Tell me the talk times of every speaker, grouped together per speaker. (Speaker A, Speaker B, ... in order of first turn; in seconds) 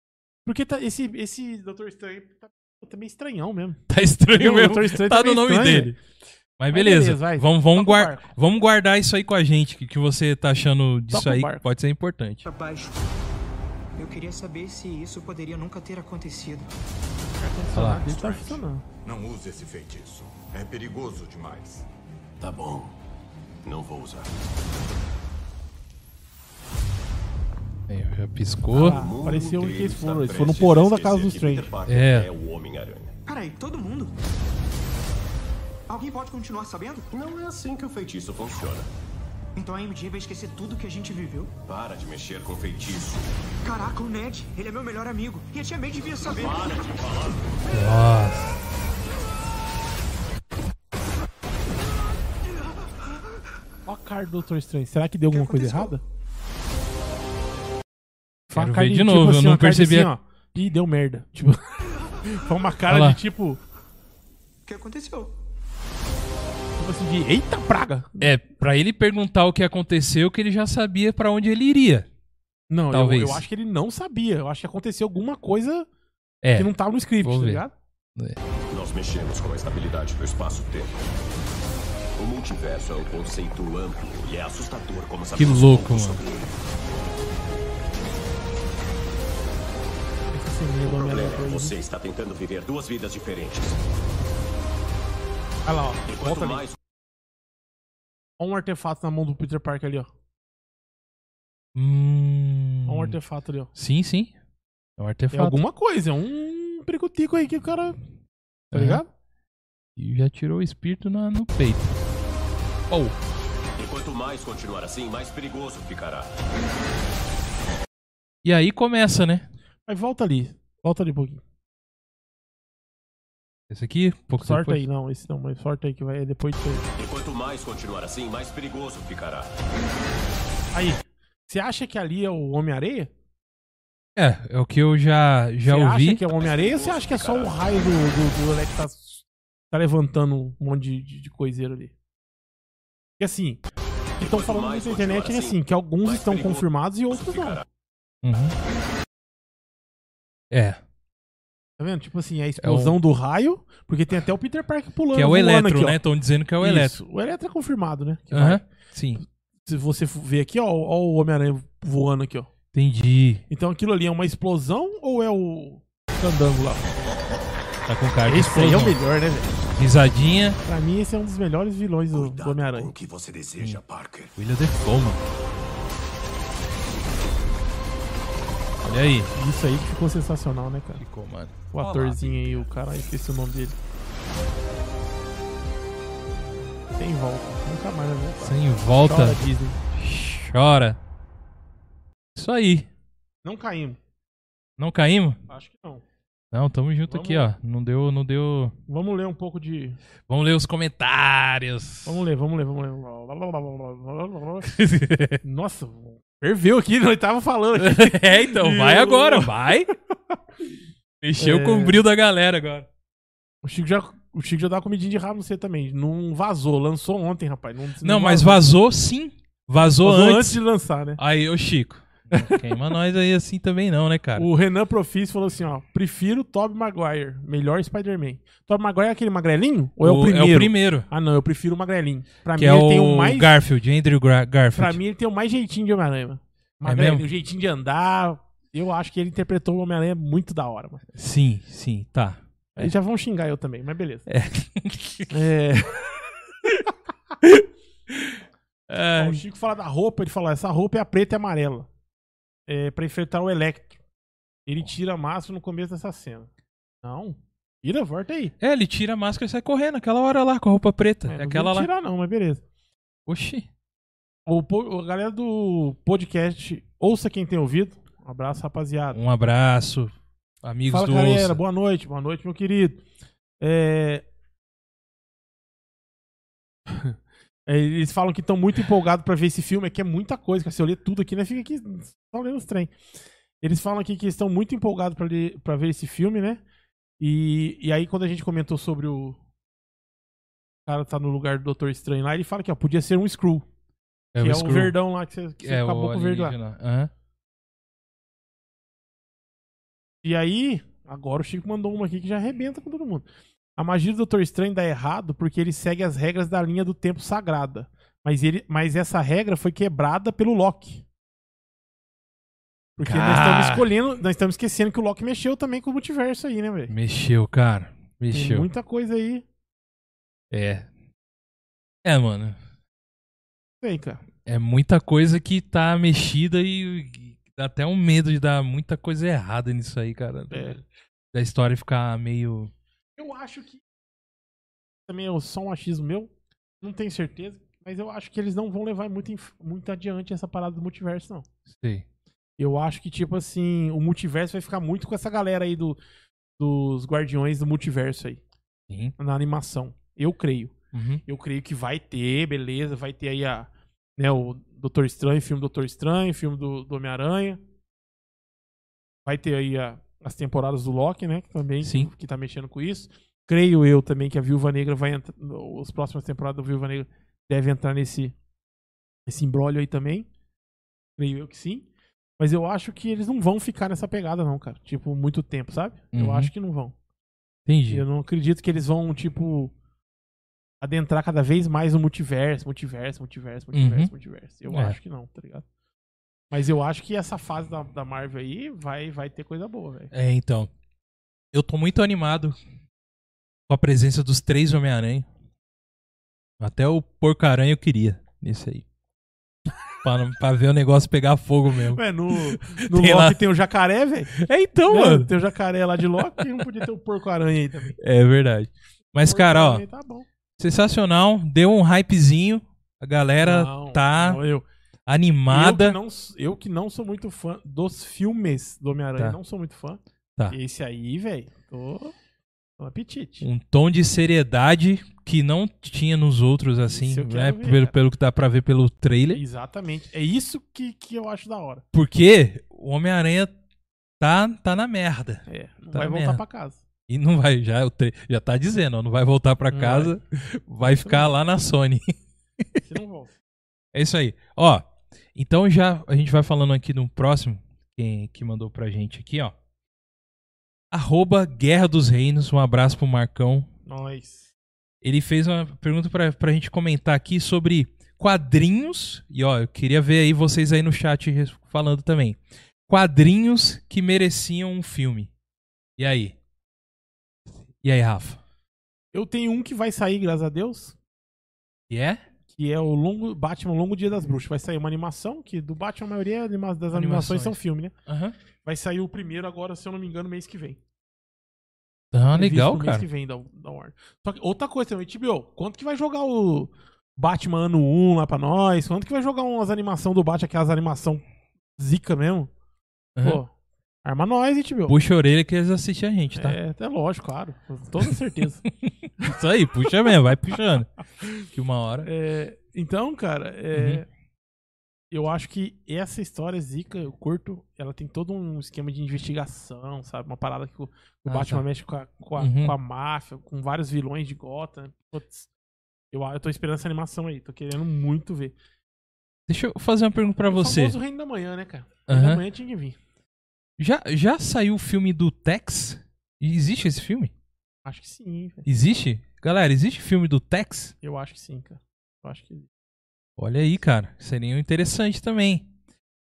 Speaker A: 0.5-3.8, 4.3-5.9, 6.7-8.3, 11.1-11.6, 17.4-18.8, 28.7-31.7, 53.9-56.0, 58.5-63.6, 66.8-68.3, 72.7-75.9, 76.5-77.7, 90.3-91.8, 95.7-96.6, 98.4-100.1, 102.9-103.7, 105.3-108.0, 108.7-109.1, 119.9-121.4, 124.4-126.9, 130.7-133.1, 135.6-141.9, 143.2-143.6, 144.2-147.6, 151.8-156.0, 156.6-158.6, 159.6-162.5, 163.5-166.9, 168.3-169.6, 170.6-172.9, 179.3-181.0, 181.7-183.8, 186.9-189.8, 193.4-194.0, 195.5-196.0, 197.1-197.5, 198.9-200.0, 202.1-204.8, 205.4-210.4, 211.4-212.0, 213.6-218.6, 220.0-221.2, 222.3-222.6, 224.4-233.5, 234.7-241.0, 242.8-244.3, 245.3-246.1, 249.2-251.9, 252.7-254.0, 254.7-256.5, 257.0-258.5, 261.3-262.6, 264.5-269.2, 270.9-273.0, 273.6-274.2, 276.9-282.9, 283.6-286.6, 287.2-289.4, 290.9-293.6, 294.4-296.6, 300.2-311.0, 313.0-316.9, 318.3-319.4, 323.8-324.2, 330.5-330.8, 333.2-333.8, 335.1-341.5, 342.6-346.0, 346.6-348.4, 349.2-350.7, 351.3-357.6, 359.3-368.4, 369.3-370.3, 371.2-371.9, 372.4-376.9, 377.9-379.7, 380.8-385.6, 386.5-390.1, 401.9-404.3, 404.9-408.0, 409.3-410.3, 413.4-414.6, 415.5-422.1, 422.8-423.5, 426.9-427.9, 429.3-431.8, 435.5-436.8, 439.7-440.1, 440.8-441.4, 442.8-443.4, 453.9-454.5, 469.1-470.9, 472.5-477.9, 478.6-480.8, 482.3-491.2, 491.8-492.5, 493.2-493.5, 494.0-494.9, 496.4-498.7, 501.2-501.4, 502.0-504.1, 505.1-515.5, 516.1-518.6, 520.4-523.0, 527.9-528.6, 531.0-532.7
Speaker B: 3.9-6.0, 6.6-12.5, 17.7-18.3, 27.9-29.0, 31.9-32.3, 47.7-48.6, 58.5-60.1, 62.9-63.2, 68.2-72.1, 72.9-73.4, 76.4-77.6, 78.2-78.4, 85.3-86.2, 101.7-103.2, 103.7-104.3, 105.0-105.6, 108.7-109.0, 110.0-112.0, 118.4-119.5, 123.7-124.8, 134.2-136.2, 148.2-148.6, 150.5-150.8, 152.6-153.0, 155.1-157.0, 158.3-159.2, 162.7-163.4, 167.9-169.0, 169.8-170.6, 174.3-175.2, 178.8-179.3, 181.0-182.7, 188.4-189.4, 189.9-191.0, 192.3-192.9, 194.8-195.4, 196.5-198.8, 200.3-202.2, 204.6-205.4, 207.8-209.9, 211.2-212.9, 218.0-220.6, 221.2-224.5, 230.0-231.1, 232.6-235.0, 236.8-237.2, 241.1-242.9, 244.3-245.3, 247.4-249.4, 258.6-261.9, 263.3-263.7, 269.1-270.1, 270.6-271.6, 294.3-295.0, 295.6-297.1, 313.0-313.9, 316.9-318.7, 320.5-320.9, 322.1-322.6, 324.4-330.8, 331.3-332.7, 341.7-342.1, 348.9-349.1, 350.9-351.2, 361.8-362.1, 376.1-376.5, 377.6-378.1, 383.7-384.1, 384.7-385.0, 390.1-390.7, 391.5-392.6, 393.7-395.3, 396.6-398.9, 400.0-403.4, 404.3-405.3, 406.2-406.6, 408.0-409.8, 410.6-414.4, 415.1-416.0, 423.4-429.4, 431.9-433.5, 434.2-436.4, 437.1-442.8, 443.9-449.5, 450.9-453.7, 455.0-465.3, 466.0-466.4, 467.8-468.4, 471.9-472.2, 476.9-478.4, 482.1-483.1, 493.1-493.4, 494.9-496.6, 498.8-500.9, 501.4-502.1, 503.7-504.0, 511.3-511.6, 512.4-512.7, 519.5-521.0, 522.1-522.4, 523.8-527.3, 528.6-530.9, 533.4-535.7
Speaker C: 12.4-13.0, 14.0-16.7, 33.3-34.1, 35.9-37.1, 39.5-41.5, 43.6-46.8, 55.3-55.9, 64.7-65.3
Speaker D: 19.1-21.9
Speaker E: 22.4-22.9, 23.6-24.3, 28.8-33.1, 37.1-38.9, 41.7-43.3, 46.2-47.5, 78.7-81.0, 82.2-86.5, 90.8-93.8, 96.1-96.8, 113.8-116.3, 126.9-129.5, 136.3-137.6, 144.2-147.6, 172.1-174.3